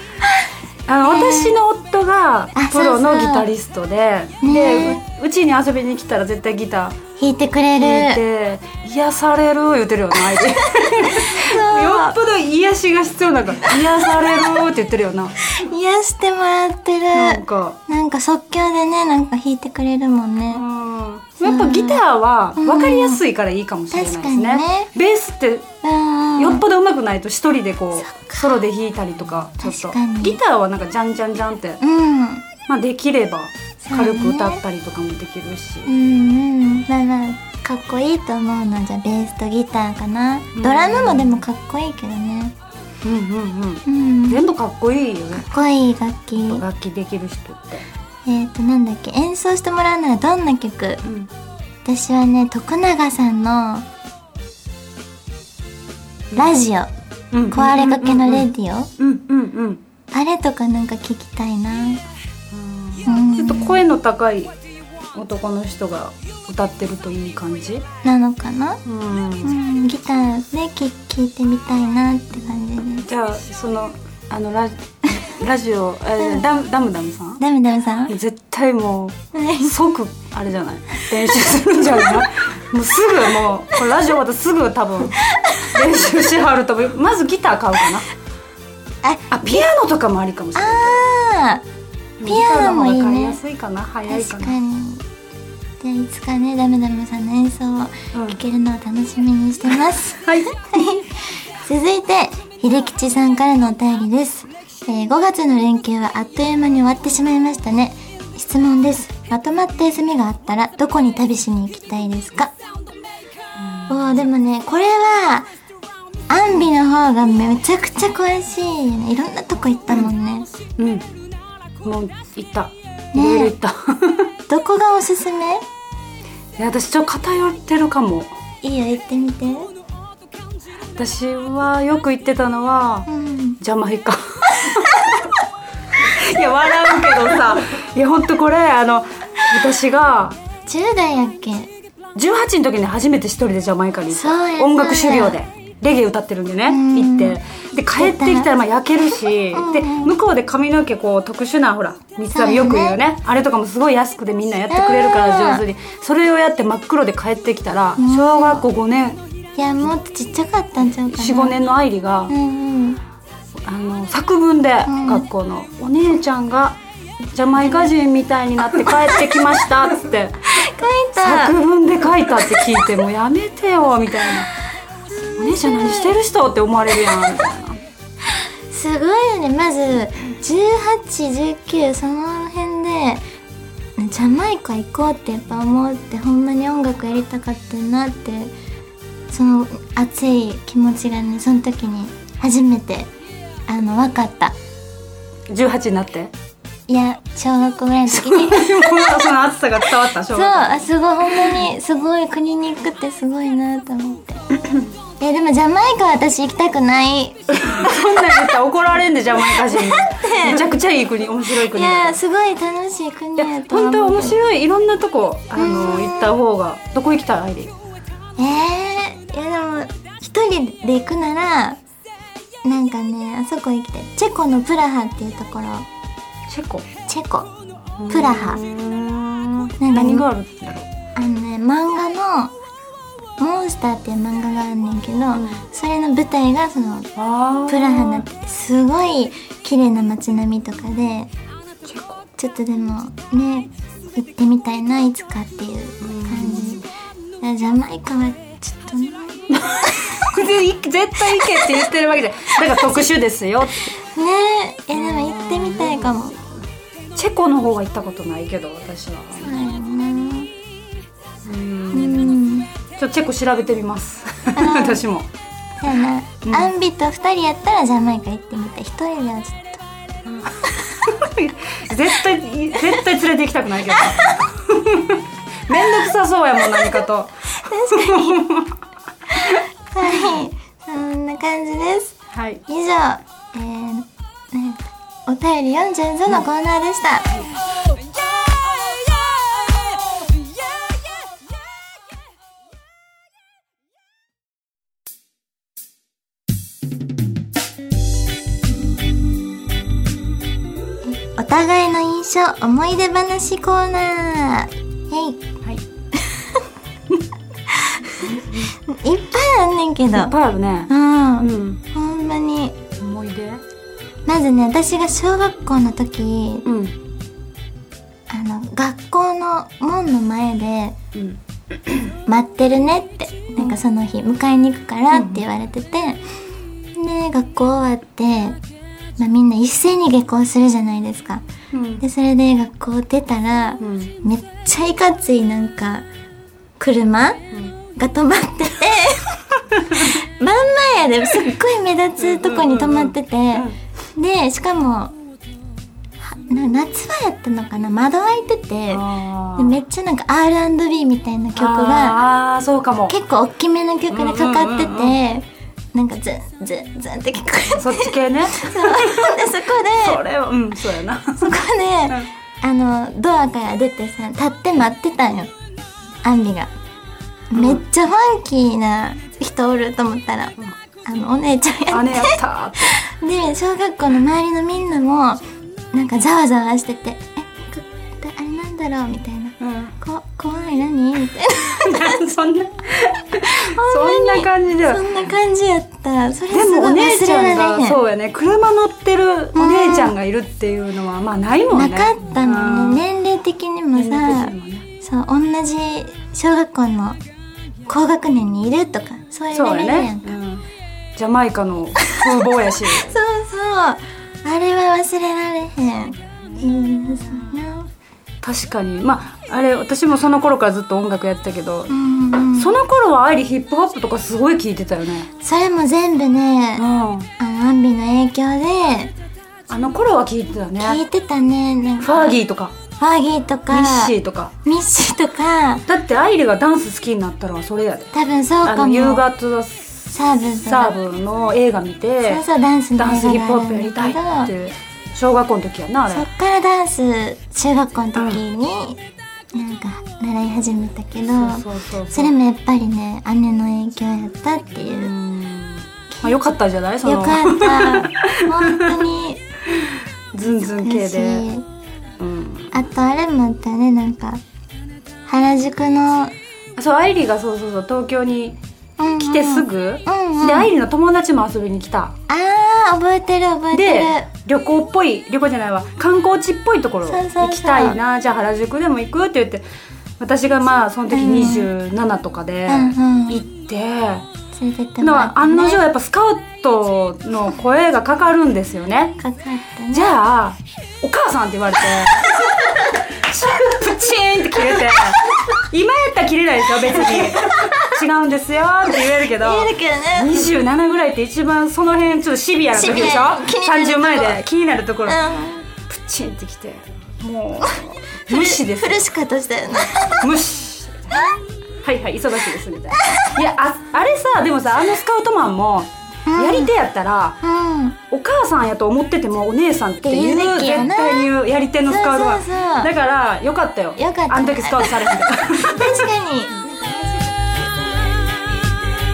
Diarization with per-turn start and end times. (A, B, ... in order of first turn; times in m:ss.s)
0:00.9-0:07.0 A
0:01.0-0:01.6 B
0:02.6-0:03.5 B
0:04.4-0:05.0 B
0:07.2-0:08.2 B
0:07.8-0:15.4 A
0:11.0-0:12.2 B
0:13.8-0:14.3 B
0:15.4-0:20.6 B
0:17.1-0:17.8 A
0:20.5-0:25.7 A
0:21.4-0:22.0 B
0:22.6-0:23.2 B
0:23.9-0:24.9 B
0:25.8-0:26.6 B
0:26.4-0:31.8 A
0:28.0-0:28.5 B
0:29.6-0:30.4 B
0:31.8-0:32.5 B
0:32.7-0:35.9 A
0:33.8-0:34.6 B
0:35.9-0:42.5 B
0:40.6-0:41.4 A
0:43.0-0:45.5 A
0:43.9-0:44.4 B
0:45.3-0:46.6 B
0:46.4-0:47.9 A
0:48.3-0:51.0 B
0:51.0-0:51.3 A
0:51.8-0:53.9 B
0:56.4-0:56.9 B
0:57.3-0:59.8 A
0:57.5-0:58.9 B
1:00.1-1:02.0 B
1:02.5-1:04.5 A
1:03.1-1:03.8 B
1:05.2-1:07.8 A
1:08.0-1:08.8 B
1:08.8-1:09.6 A
1:09.4-1:13.1 B
1:13.1-1:17.4 A
1:17.4-1:18.2 B
1:18.1-1:28.1 A
1:19.3-1:19.7 B
1:25.3-1:25.7 B
1:29.0-1:29.6 B
1:29.3-1:31.1 A
1:30.6-1:31.6 B
1:32.2-1:34.6 A
1:32.2-1:33.4 B
1:34.1-1:35.0 B
1:35.8-1:52.5 B
1:40.2-1:40.5 A
1:53.6-1:54.0 A
1:53.9-1:55.5 B
1:56.3-2:00.5 B
2:00.8-2:01.1 A
2:01.8-2:04.3 A
2:03.2-2:03.6 B
2:04.5-2:05.6 B
2:06.6-2:08.3 A
2:08.6-2:09.7 B
2:11.0-2:13.1 A
2:13.1-2:13.6 B
2:13.6-2:15.4 A
2:16.0-2:20.4 A
2:20.7-2:21.7 B
2:22.2-2:39.2 A
2:24.1-2:25.4 B
2:26.7-2:27.4 B
2:27.9-2:28.5 B
2:29.5-2:30.1 B
2:32.3-2:33.0 B
2:34.7-2:35.6 B
2:38.0-2:38.6 B
2:39.6-2:41.6 B
2:41.1-2:42.3 A
2:42.3-2:43.0 B
2:43.6-2:46.8 A
2:44.9-2:45.3 B
2:47.4-2:50.5 A
2:47.6-2:47.9 B
2:48.9-2:49.1 B
2:50.5-2:51.6 B
2:51.2-2:54.5 A
2:55.1-2:56.2 B
2:55.4-2:57.8 A
2:58.7-3:03.2 B
3:04.0-3:08.5 B
3:09.3-3:13.1 B
3:13.7-3:14.6 B
3:15.5-3:16.3 A
3:16.9-3:19.3 B
3:18.1-3:21.7 A
3:20.1-3:24.4 B
3:25.2-3:27.4 B
3:27.6-3:32.2 A
3:29.5-3:30.7 B
3:31.6-3:34.4 B
3:33.4-3:37.7 A
3:35.6-3:36.4 B
3:38.4-3:41.8 B
3:42.6-3:45.9 B
3:46.5-3:46.9 A
3:47.1-3:47.5 B
3:48.0-3:50.9 A
3:48.1-3:48.6 B
3:49.8-3:50.3 B
3:51.2-3:52.5 B
3:53.4-3:57.1 B
3:55.3-3:55.6 A
3:57.2-3:58.2 A
3:57.7-4:01.3 B
4:01.8-4:02.3 A
4:02.4-4:06.8 B
4:06.0-4:06.8 A
4:07.4-4:10.1 B
4:09.6-4:13.9 A
4:11.4-4:11.8 B
4:14.0-4:16.4 B
4:15.0-4:16.2 A
4:17.2-4:19.6 A
4:19.4-4:20.5 B
4:21.4-4:22.4 A
4:21.9-4:22.7 B
4:23.0-4:25.3 A
4:24.5-4:25.0 B
4:25.8-4:29.8 B
4:26.5-4:26.7 A
4:30.3-4:38.7 A
4:37.6-4:38.5 B
4:39.3-4:42.2 B
4:40.1-4:40.4 A
4:42.3-4:42.6 A
4:42.7-4:47.4 B
5:01.0-5:05.4 B
5:06.3-5:06.6 B
5:07.7-5:10.3 B
5:08.2-5:08.7 A
5:10.1-5:11.8 A
5:10.9-5:12.8 B
5:13.0-5:13.6 A
5:14.3-5:16.7 B
5:16.7-5:17.0 A
5:18.3-5:21.0 B
5:21.2-5:22.1 A
5:22.3-5:26.2 B
5:25.1-5:25.4 A
5:27.0-5:28.6 B
5:29.2-5:31.4 B
5:31.7-5:32.0 A
5:32.0-5:36.0 B
5:33.8-5:34.1 A
5:36.8-5:37.4 B
5:37.9-5:45.2 B
5:42.2-5:43.8 A
5:46.2-5:52.2 B
5:48.9-5:49.8 A
5:51.6-5:53.2 A
5:53.1-6:00.2 B
5:54.1-5:55.2 A
5:57.8-6:02.3 A
6:01.4-6:05.5 B
6:06.2-6:06.7 B
6:07.5-6:15.4 B
6:07.5-6:07.8 A
6:11.9-6:13.0 A
6:15.9-6:22.2 B
6:19.6-6:19.9 A
6:21.8-6:25.2 A
6:23.8-6:28.0 B
6:26.5-6:33.1 A
6:29.6-6:30.2 B
6:31.7-6:37.2 B
6:33.9-6:34.9 A
6:37.9-6:40.4 B
6:39.5-6:40.6 A
6:41.2-6:43.1 A
6:42.9-6:47.9 B
6:48.4-6:51.9 A
6:51.9-6:52.8 B
6:52.5-6:55.3 A
6:55.4-6:56.9 B
6:56.8-6:57.3 A
6:57.4-6:59.1 B
6:59.7-7:01.0 A
7:00.8-7:02.4 B
7:02.0-7:02.8 A
7:03.0-7:05.9 B
7:03.7-7:04.5 A
7:05.9-7:08.1 A
7:08.1-7:09.3 B
7:08.6-7:12.4 A
7:10.1-7:11.0 B
7:12.2-7:14.5 B
7:13.0-7:16.3 A
7:16.1-7:19.0 B
7:18.2-7:18.4 A
7:19.5-7:25.1 B
7:21.3-7:22.4 A
7:24.9-7:29.1 A
7:26.1-7:26.5 B
7:27.0-7:29.4 B
7:29.8-7:31.5 A
7:30.4-7:31.7 B
7:32.2-7:32.7 A
7:32.7-7:34.4 B
7:35.3-7:36.3 B
7:36.8-7:38.6 A
7:39.0-7:40.7 B
7:39.2-7:42.2 A
7:42.3-7:44.3 B
7:43.7-7:49.6 A
7:47.1-7:48.0 B
7:50.2-7:54.3 A
7:51.1-7:51.7 B
7:52.7-7:53.4 B
7:54.5-7:55.8 B
7:55.0-7:59.2 A
7:59.2-8:00.2 B
7:59.9-8:15.3 A
8:07.2-8:08.0 B
8:09.2-8:10.5 B
8:12.7-8:14.4 B
8:15.1-8:15.7 B
8:15.9-8:19.1 A
8:18.3-8:20.3 B
8:20.2-8:21.0 A
8:21.8-8:27.4 A
8:22.9-8:23.4 B
8:26.3-8:26.7 B
8:27.4-8:28.0 B
8:28.1-8:36.1 A
8:30.0-8:31.3 B
8:31.8-8:32.9 B
8:34.0-8:35.0 B
8:35.6-8:36.9 B